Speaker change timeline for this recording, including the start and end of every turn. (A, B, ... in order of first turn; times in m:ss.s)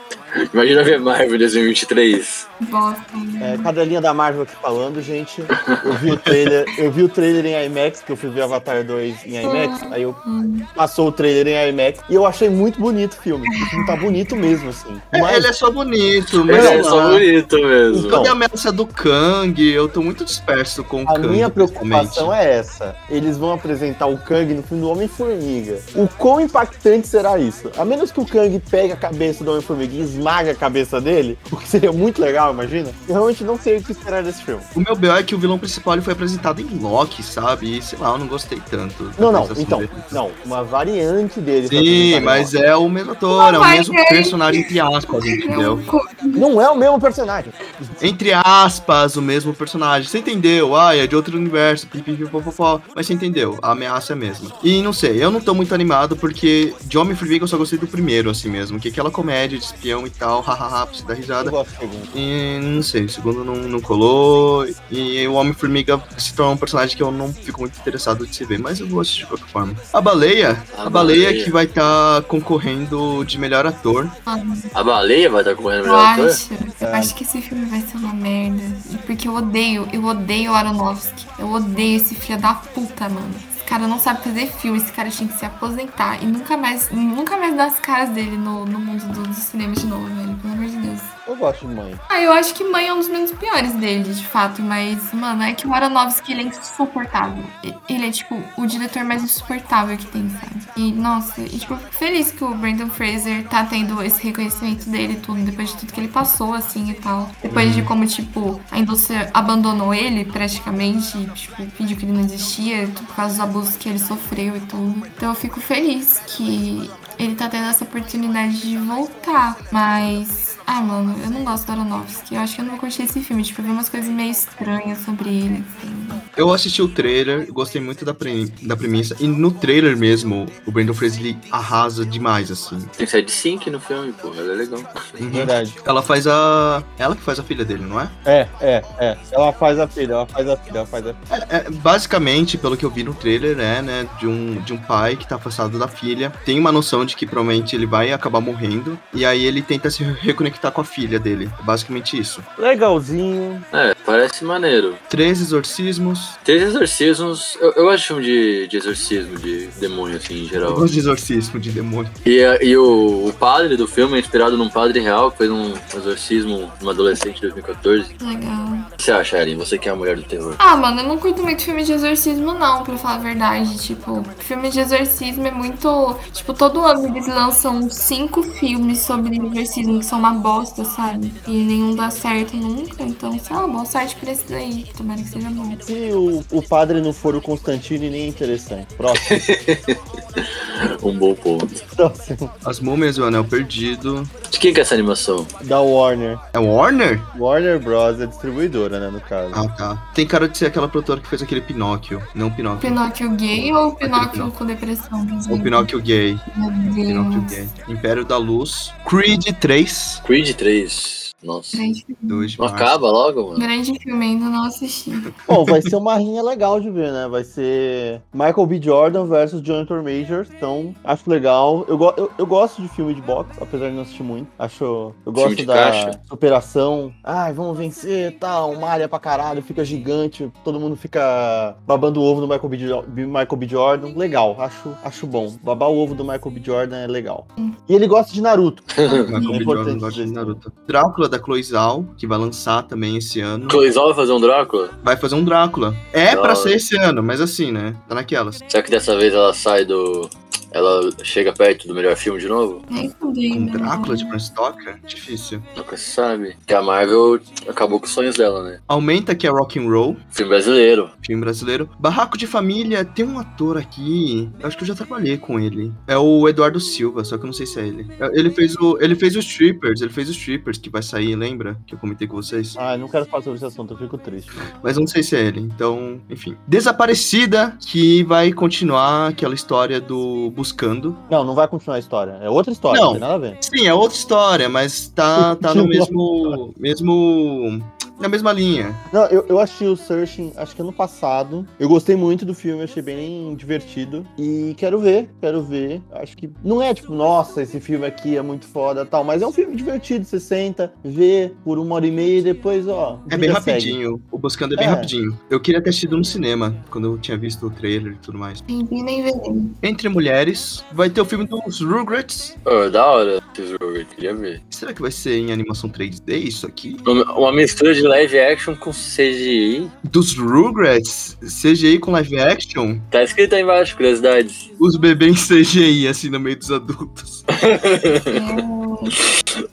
0:00.5-0:02.5 A
0:02.6-0:03.7 B
0:03.4-0:10.2 C
0:05.6-0:06.3 A
0:09.4-0:10.7 B
0:10.8-0:15.5 C
0:13.6-0:14.5 B
0:15.1-0:17.3 D
0:16.5-0:18.2 A
0:16.5-0:16.9 C
0:17.9-0:22.4 D
0:17.9-0:18.4 C
0:21.1-0:34.7 C
0:34.7-0:40.2 D
0:39.2-0:42.5 C
0:41.6-0:45.8 D
0:43.3-0:44.7 B
0:45.3-0:46.5 B
0:46.4-0:47.9 C
0:48.0-1:01.6 D
1:01.4-1:02.1 C
1:02.1-1:14.2 D
1:10.8-1:11.5 A
1:14.3-1:14.7 B
1:14.7-1:16.4 A
1:15.8-1:31.1 B
1:16.8-1:17.1 C
1:31.3-1:32.0 C
1:32.1-2:06.2 B
1:47.5-1:47.9 D
2:06.4-2:12.9 D
2:13.0-2:14.9 A
2:15.2-2:18.1 D
2:15.3-2:15.8 C
2:18.3-2:21.2 C
2:21.3-2:32.5 D
2:32.6-2:33.7 C
2:33.7-2:35.0 A
2:35.1-2:36.4 D
2:36.4-2:40.8 A
2:40.6-2:42.1 D
2:42.2-2:48.1 A
2:48.2-2:48.9 B
2:49.0-2:50.6 A
2:50.6-3:05.8 B
3:05.8-3:09.4 C
3:09.2-3:11.7 A
3:11.9-3:12.5 C
3:12.6-3:14.3 D
3:14.5-3:15.5 A
3:15.6-3:16.4 C
3:16.5-3:17.3 D
3:17.4-3:19.6 C
3:19.5-3:23.0 D
3:22.8-3:25.9 B
3:23.6-3:24.5 D
3:25.5-3:26.4 D
3:26.5-3:27.6 B
3:27.1-3:30.2 D
3:30.2-3:31.8 A
3:31.7-3:32.5 B
3:32.3-3:33.0 D
3:32.6-3:33.7 A
3:33.6-3:35.3 B
3:35.5-3:58.9 C
3:35.5-3:35.9 D
3:45.4-3:46.2 A
3:59.0-3:59.3 A
3:59.1-3:59.6 B
3:59.2-4:03.8 D
3:59.5-4:00.6 C
4:03.7-4:04.9 A
4:05.0-4:08.6 D
4:06.3-4:06.8 A
4:08.7-4:12.8 A
4:12.9-4:14.4 B
4:13.5-4:15.6 D
4:15.8-4:18.8 A
4:18.9-4:20.2 D
4:20.4-4:21.1 A
4:21.2-4:32.8 D
4:32.8-4:34.7 C
4:34.8-4:41.2 D
4:41.3-4:43.6 C
4:42.9-4:49.0 D
4:45.4-4:46.6 C
4:49.1-5:04.0 C
5:03.3-5:08.6 D
5:04.8-5:05.1 C
5:08.7-5:09.8 B
5:09.8-5:12.6 D
5:12.6-5:14.6 A
5:14.7-5:17.0 D
5:17.0-5:19.9 A
5:20.0-5:23.1 D
5:23.1-5:24.7 A
5:24.8-5:27.4 D
5:27.5-5:28.4 A
5:28.3-5:29.2 B